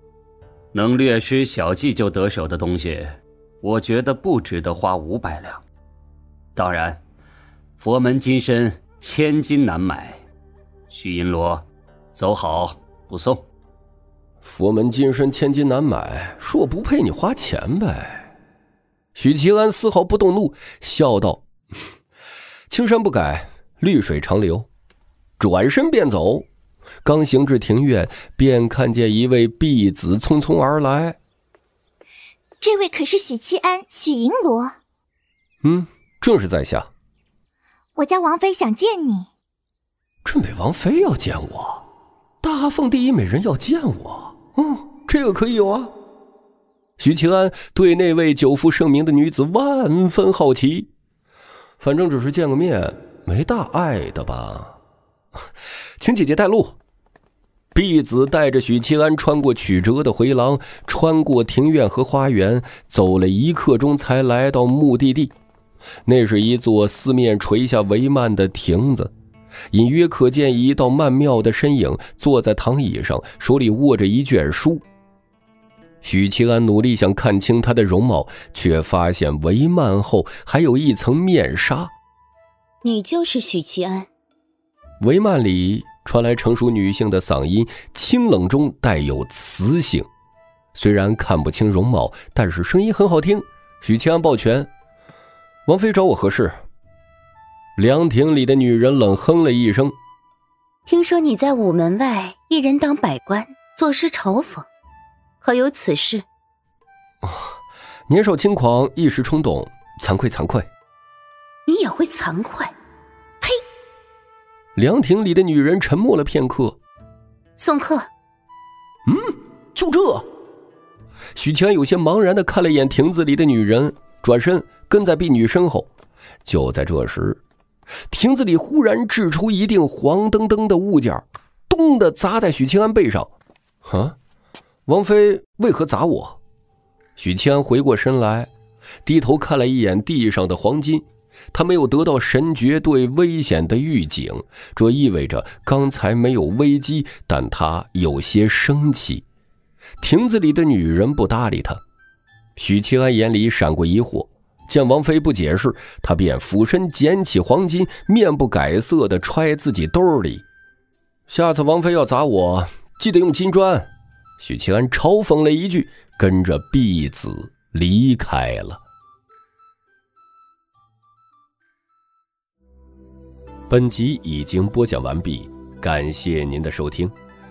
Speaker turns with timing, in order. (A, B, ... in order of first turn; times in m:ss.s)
0:00.7-0:05.6 A
0:06.6-0:07.0 A
0:07.8-0:10.2 A
0:10.9-0:13.4 A
0:14.4-0:18.3 B
0:19.2-0:21.5 B
0:22.7-0:24.7 B
0:25.4-0:26.5 B
0:27.0-0:31.2 B
0:32.6-0:34.8 C
0:35.6-0:36.9 B
0:38.0-0:39.3 C
0:40.2-0:41.8 B
0:42.4-0:45.9 B
0:47.0-0:50.9 B
0:51.8-0:54.8 B
0:56.0-0:56.8 B
0:57.7-1:05.3 B
1:06.1-1:09.1 B
1:09.7-1:14.8 B
1:16.0-1:21.9 B
1:22.8-1:24.1 D
1:25.0-1:30.1 B
1:30.7-1:34.7 B
1:35.7-1:36.5 B
1:37.8-1:40.0 B
1:40.9-1:44.7 D
1:45.4-1:46.2 D
1:48.1-1:50.7 B
1:51.7-1:52.7 D
1:54.8-1:56.8 B
1:57.6-1:58.1 D
1:59.1-2:00.2 B
2:01.4-2:05.9 B
2:06.4-2:07.4 B
2:08.1-2:13.3 B
2:13.8-2:14.2 B
2:14.9-2:16.4 B
2:17.2-2:18.5 B
2:19.0-2:29.2 B
2:30.0-2:31.8 B
2:32.6-2:40.4 B
2:41.3-2:48.8 B
2:53.7-2:57.1 B